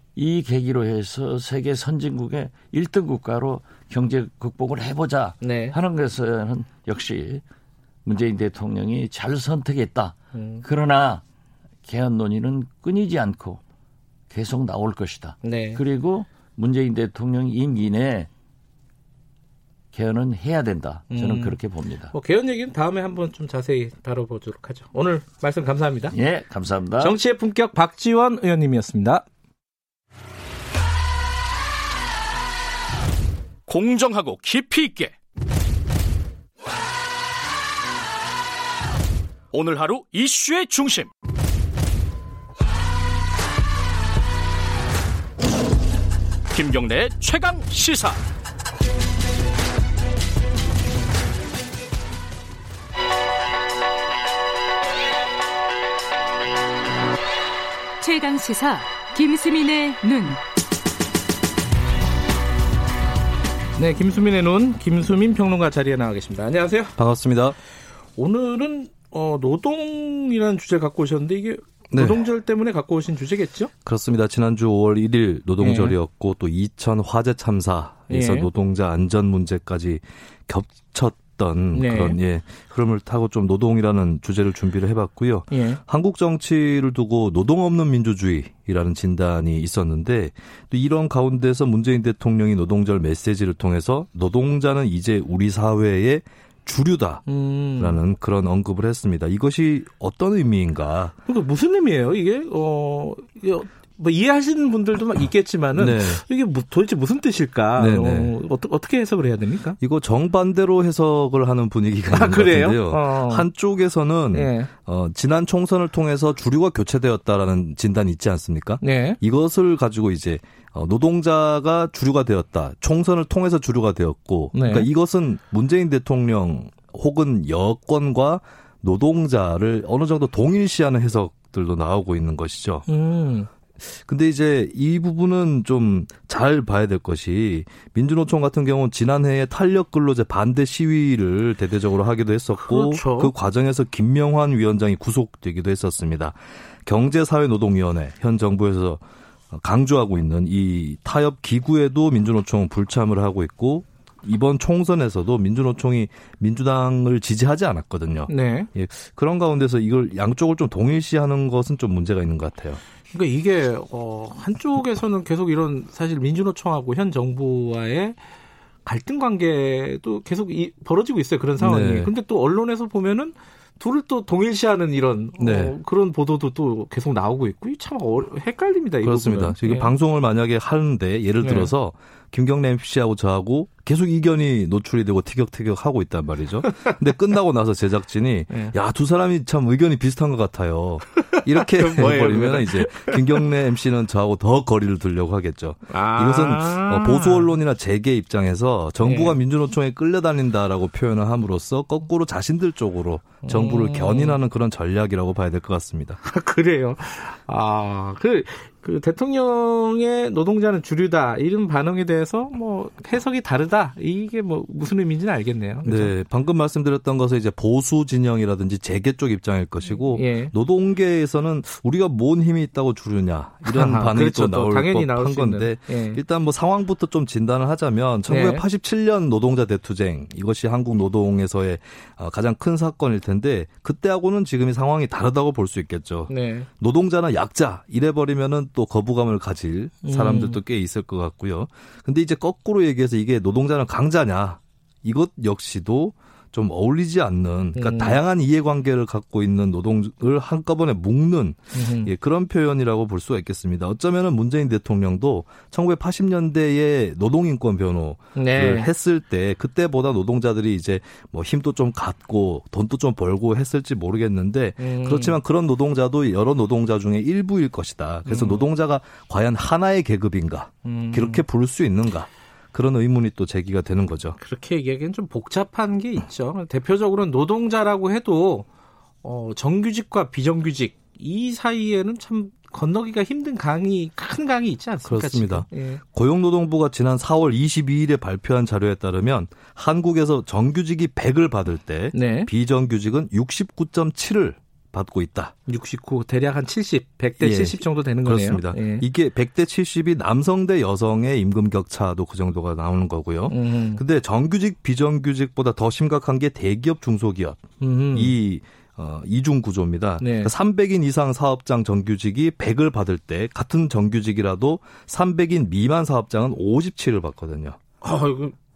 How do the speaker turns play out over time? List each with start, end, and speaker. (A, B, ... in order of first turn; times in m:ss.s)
0:00.2-0:07.4 A
0:05.4-0:05.8 B
0:08.0-0:11.2 A
0:10.3-0:10.6 B
0:11.8-0:13.6 A
0:14.3-0:18.3 A
0:15.4-0:15.8 B
0:19.9-0:22.1 A
0:21.1-0:21.6 B
0:22.1-0:26.1 B
0:26.1-0:27.2 A
0:27.0-0:29.2 B
0:33.7-0:35.1 C
0:39.5-0:41.1 C
0:46.5-0:48.2 C
0:58.0-1:00.4 D
1:03.8-1:07.0 B
1:07.0-1:07.6 E
1:08.2-1:13.7 B
1:11.9-1:12.2 E
1:13.8-1:37.2 E
1:15.6-1:16.0 B
1:18.1-1:18.5 B
1:21.7-1:22.2 B
1:25.5-1:25.8 B
1:37.2-1:38.0 B
1:37.8-1:41.1 E
1:41.2-1:49.8 B
1:45.7-1:46.2 E
1:47.8-1:48.3 E
1:49.8-2:12.8 E
1:52.1-1:53.5 B
1:54.3-1:54.7 B
1:58.8-1:59.2 B
2:04.5-2:04.9 B
2:12.9-2:13.5 B
2:13.9-2:42.8 E
2:22.6-2:23.3 B
2:38.3-2:38.7 B
2:43.1-2:48.2 B
2:48.8-2:59.9 B
2:51.6-2:52.1 E
2:55.4-2:55.8 E
2:59.0-3:26.2 E
3:01.4-3:01.7 B
3:06.6-3:07.0 B
3:08.5-3:08.7 B
3:11.2-3:13.4 B
3:15.9-3:17.5 B
3:19.0-3:19.4 B
3:23.4-3:24.4 B
3:26.2-3:36.1 B
3:35.8-4:34.4 E
3:39.9-3:40.5 B
3:43.6-3:46.2 B
3:48.3-3:48.6 B
3:56.3-3:56.7 B
4:00.0-4:00.6 B
4:07.7-4:08.2 B
4:11.7-4:12.1 B
4:18.3-4:18.9 B
4:24.8-4:25.4 B
4:28.2-4:28.7 B
4:30.8-4:31.4 B
4:34.4-4:38.6 B
4:39.2-4:46.0 B
4:45.0-4:55.5 E
4:52.1-4:52.5 B
4:55.7-4:59.0 B
4:57.4-5:17.8 E
5:03.5-5:04.0 B
5:07.8-5:08.3 B
5:10.2-5:10.5 B
5:18.0-5:18.5 B